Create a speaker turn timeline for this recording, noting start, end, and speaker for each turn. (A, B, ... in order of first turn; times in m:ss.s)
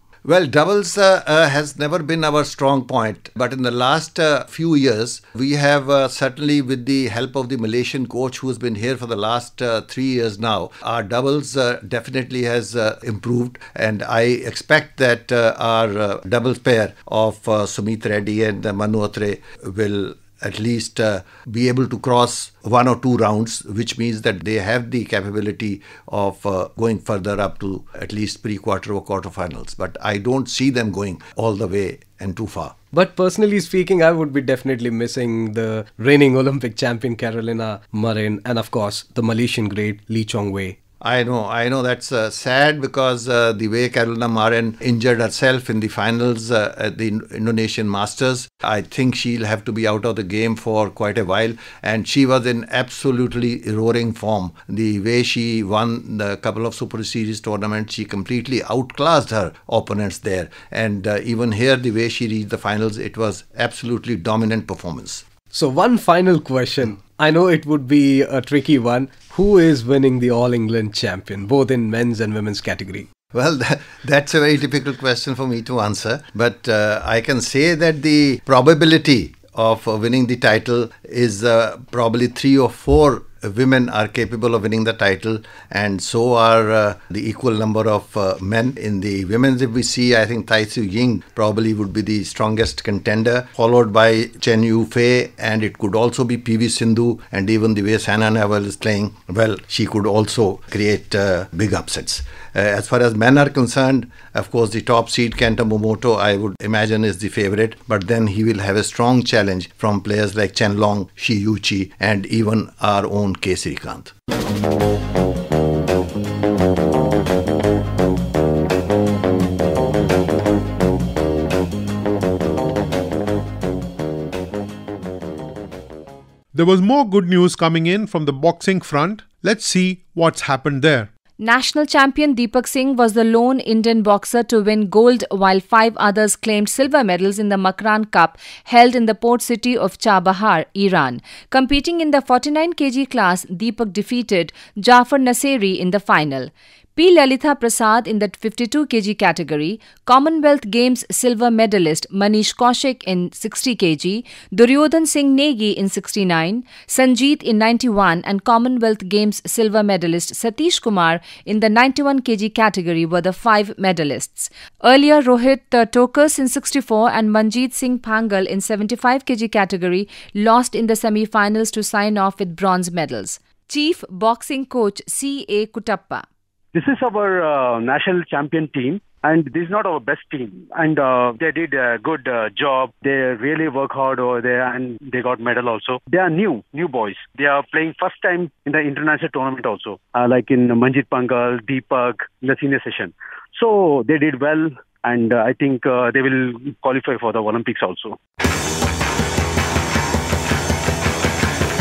0:00.2-0:32.8 A
0:32.9-0:40.8 B
0:41.0-1:05.2 A
1:05.5-1:13.1 B
1:13.3-1:54.1 A
2:06.5-2:11.1 C
2:11.4-2:56.2 D
2:56.7-3:18.2 E